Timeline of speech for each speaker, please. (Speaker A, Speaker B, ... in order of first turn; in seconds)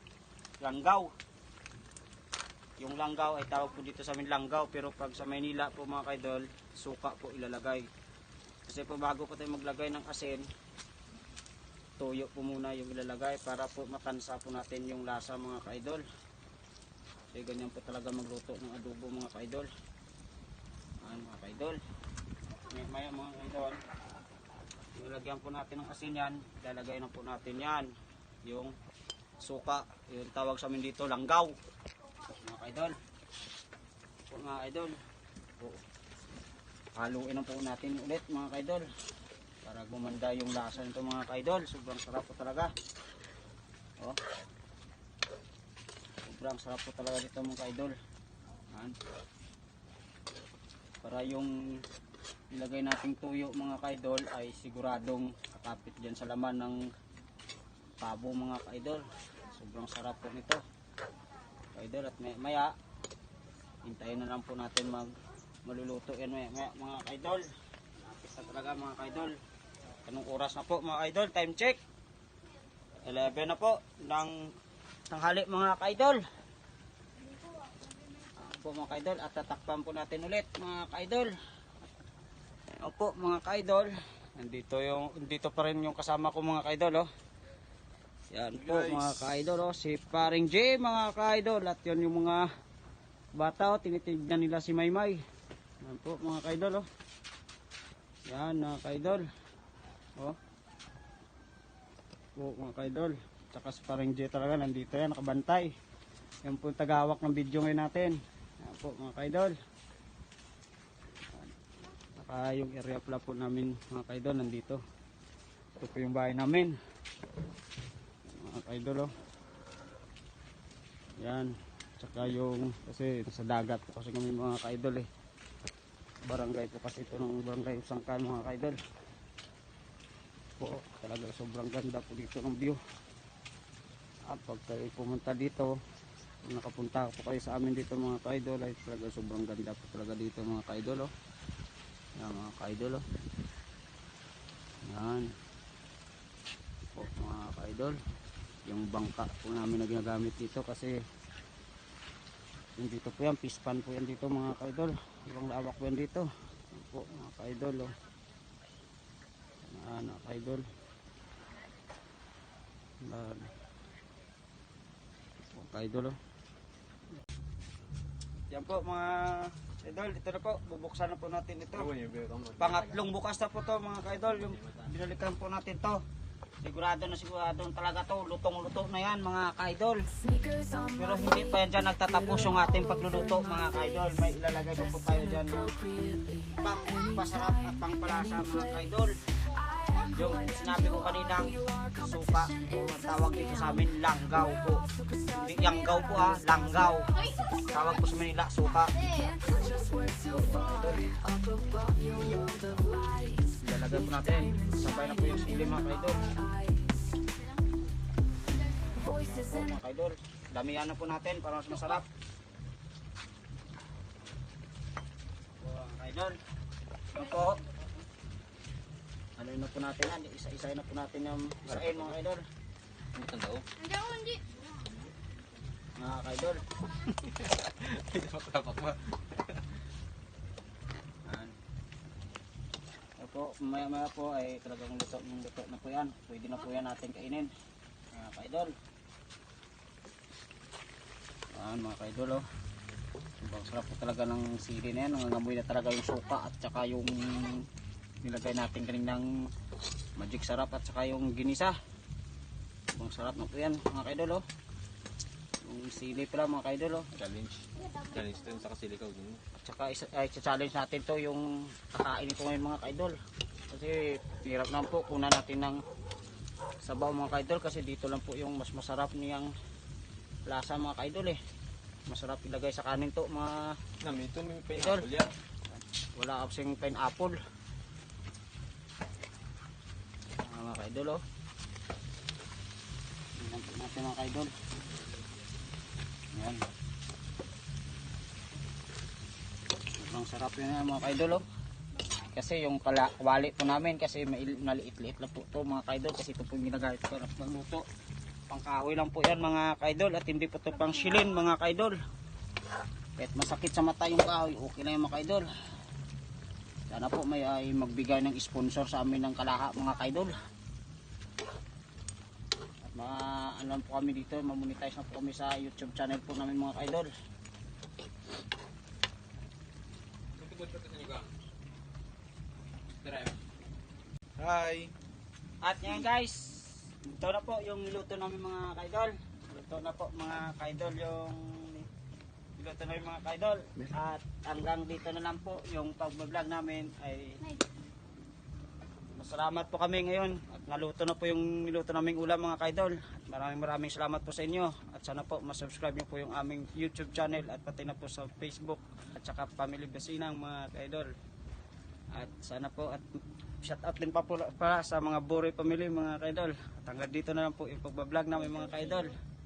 Speaker A: 0.6-1.1, 2.8-7.8, 8.7-10.4, 12.0-16.0, 17.3-19.7, 21.0-21.8, 22.7-23.8, 24.9-27.9, 28.4-28.7, 29.4-31.5, 32.4-33.0, 34.3-34.9, 37.0-38.9, 39.6-42.7, 46.2-48.0, 51.0-51.8, 52.5-56.8, 58.0-60.6, 61.7-62.7, 63.8-65.1, 65.6-67.4, 68.0-69.3, 70.0-71.8, 73.0-74.3, 75.1-76.2, 78.4-81.3, 82.8-87.1, 88.3-92.5, 93.3-95.2, 95.8-96.8, 98.3-99.2, 102.4-105.7, 106.4-109.5, 112.2-114.8, 115.8-116.8, 118.3-119.1, 121.2-125.1, 126.3-128.8, 130.6-132.8, 134.3-135.7, 136.5-141.1, 142.2-143.0, 144.9-145.3, 146.9-148.0, 148.7-150.9, 152.8-157.9, 159.7-160.6, 163.0-163.5, 165.5-166.2, 168.5-171.9, 172.6-176.0, 176.6-180.1, 180.9-185.8, 186.6-189.1, 190.1-199.1, 200.2-201.1, 203.5-206.3, 208.9-212.1, 215.6-216.4, 217.1-217.7, 219.4-222.4, 225.9-226.6, 231.2-231.5, 233.2-237.5, 238.1-238.7, 241.6-242.4, 243.4-247.6, 248.2-249.3, 250.2-251.8, 252.9-254.4, 255.6-257.1, 259.6-263.2, 263.7-265.8, 266.8-269.5, 270.5-271.4, 272.1-273.7, 274.7-275.1, 276.1-277.3, 280.4-281.2, 283.4-284.5, 286.3-286.6, 290.0-291.4, 292.2-297.8, 298.5-302.0, 303.2-305.5, 306.9-310.4, 312.9-317.1, 325.6-331.9, 332.6-337.4, 339.2-351.1, 352.1-353.0, 353.6-359.2
Speaker B: 88.6-89.1, 171.7-173.0, 174.4-174.9, 221.7-222.1, 223.1-223.7, 227.0-229.4, 257.1-259.4, 274.0-275.3, 320.4-321.3, 323.0-323.4, 324.4-324.9
Speaker C: 199.0-200.0, 201.5-203.0, 223.8-224.4